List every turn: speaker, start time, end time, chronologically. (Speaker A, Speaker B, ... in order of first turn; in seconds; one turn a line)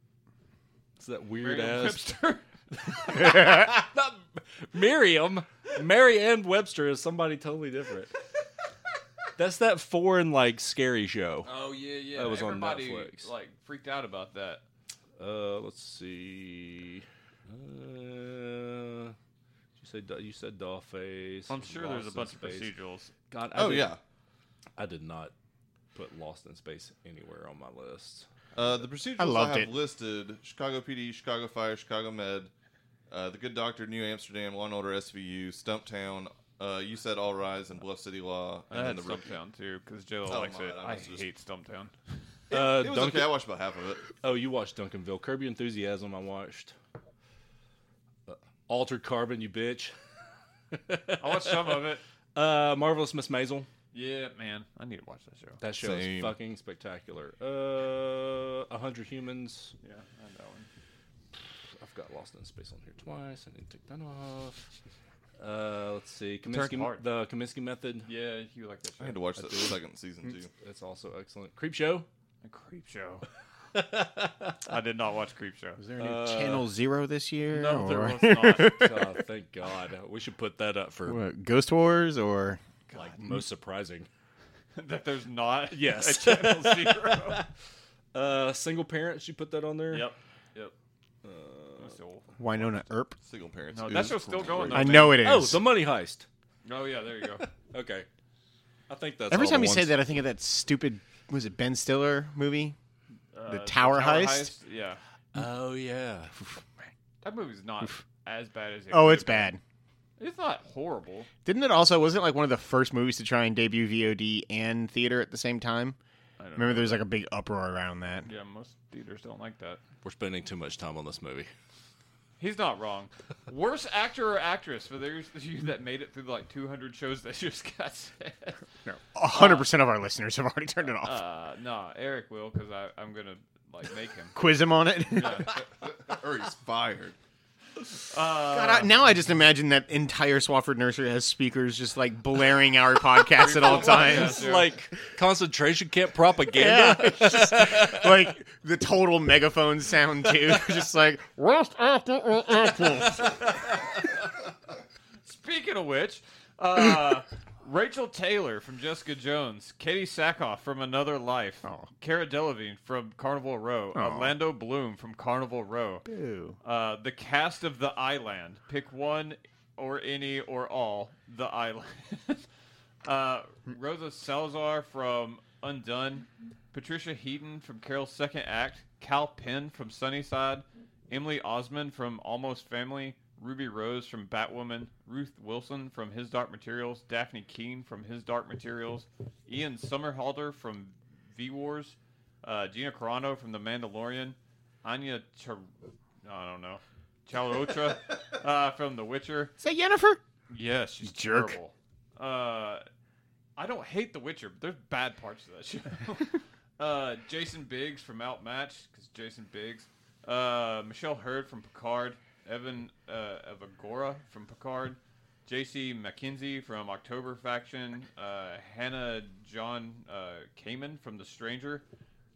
Speaker A: 1.0-2.0
Speaker B: 1.4-3.3
Speaker A: 2.9-8.2
Speaker A: 9.4-11.5
Speaker B: 11.4-14.6
Speaker A: 12.1-13.3
Speaker A: 15.2-19.1
Speaker A: 19.8-22.7
Speaker B: 21.5-23.2
Speaker A: 23.3-23.9
Speaker C: 23.5-24.0
Speaker A: 24.8-25.3
Speaker A: 25.9-28.2
Speaker C: 28.5-32.5
Speaker D: 29.2-29.7
Speaker C: 33.1-39.3
Speaker B: 38.7-41.9
Speaker C: 40.3-41.3
Speaker A: 42.5-43.3
Speaker C: 42.5-44.1
Speaker A: 44.1-46.7
Speaker A: 48.3-49.9
Speaker A: 50.7-51.8
Speaker B: 51.2-52.0
Speaker A: 52.3-53.7
Speaker B: 53.9-55.6
Speaker A: 55.6-59.7
Speaker C: 55.8-56.4
Speaker B: 59.8-60.7
Speaker A: 61.8-64.6
Speaker A: 65.4-68.1
Speaker B: 66.5-67.0
Speaker B: 68.0-69.2
Speaker C: 69.0-70.5
Speaker A: 69.4-69.8
Speaker A: 70.5-72.0
Speaker B: 72.4-73.2
Speaker A: 73.7-74.6
Speaker B: 74.7-75.8
Speaker D: 75.8-79.0
Speaker A: 76.0-76.7
Speaker B: 77.5-79.0
Speaker A: 78.2-81.2
Speaker D: 81.0-82.6
Speaker B: 82.9-83.2
Speaker A: 83.0-84.1
Speaker B: 84.7-87.4
Speaker A: 85.7-87.5
Speaker A: 88.1-90.1
Speaker B: 89.9-90.7
Speaker A: 91.2-91.9
Speaker B: 91.8-92.7
Speaker D: 92.4-93.2
Speaker C: 93.2-95.1
Speaker B: 93.7-95.2
Speaker D: 94.7-95.6
Speaker A: 94.9-96.2
Speaker B: 96.6-97.5
Speaker A: 97.6-98.1
Speaker A: 98.9-100.0
Speaker D: 99.3-102.8
Speaker B: 103.3-105.0
Speaker D: 103.5-104.5
Speaker A: 105.3-106.3
Speaker B: 107.2-109.5
Speaker D: 108.9-109.6
Speaker B: 110.2-111.3
Speaker D: 111.4-116.0
Speaker B: 116.4-117.1
Speaker D: 116.6-118.3
Speaker B: 118.2-119.8
Speaker A: 120.0-121.5
Speaker B: 122.4-128.6
Speaker D: 128.8-131.2
Speaker B: 129.3-129.7
Speaker B: 130.9-134.3
Speaker D: 134.3-135.6
Speaker B: 135.1-135.5
Speaker C: 135.8-137.2
Speaker B: 138.0-138.9
Speaker D: 138.5-144.5
Speaker B: 143.4-144.7
Speaker A: 143.6-148.1
Speaker D: 146.5-153.4
Speaker B: 155.2-166.1
Speaker D: 163.9-164.3
Speaker D: 166.1-166.6
Speaker B: 166.6-172.4
Speaker B: 173.0-195.7
Speaker B: 196.2-199.5
Speaker D: 199.6-200.2
Speaker B: 200.5-202.8
Speaker D: 201.0-201.6
Speaker B: 203.6-221.8